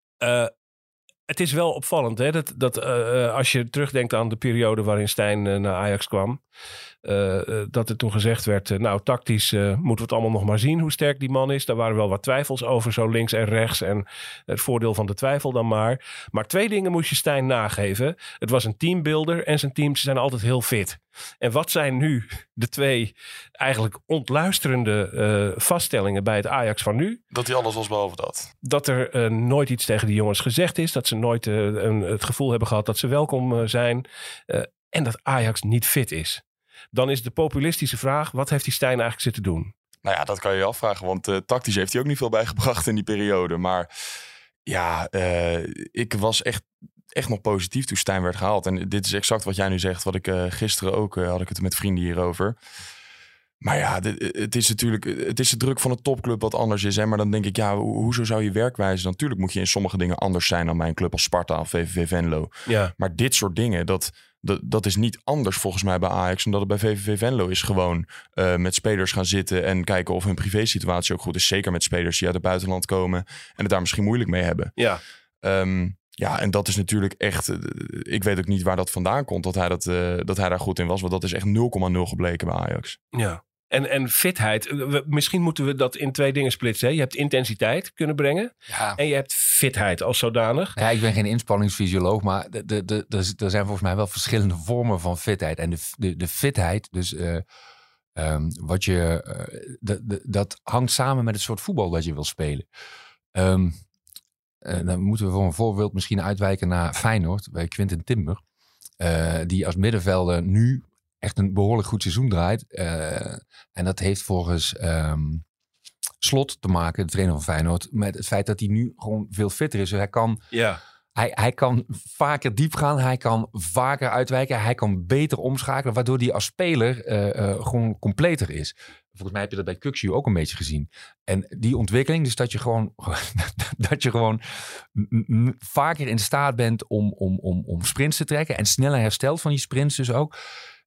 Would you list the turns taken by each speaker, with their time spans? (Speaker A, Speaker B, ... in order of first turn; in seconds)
Speaker A: 0.2-0.5, 1.3-6.4, 7.0-27.2, 28.6-39.7, 62.6-62.9, 83.1-90.8, 120.5-120.8
Speaker B: 27.3-28.5, 40.0-43.9, 44.6-52.5, 53.6-74.7, 75.4-83.0
Speaker C: 88.7-89.0, 90.8-97.4, 98.2-102.7, 103.3-103.8, 104.6-108.4, 109.0-115.4, 116.2-120.4, 121.1-140.3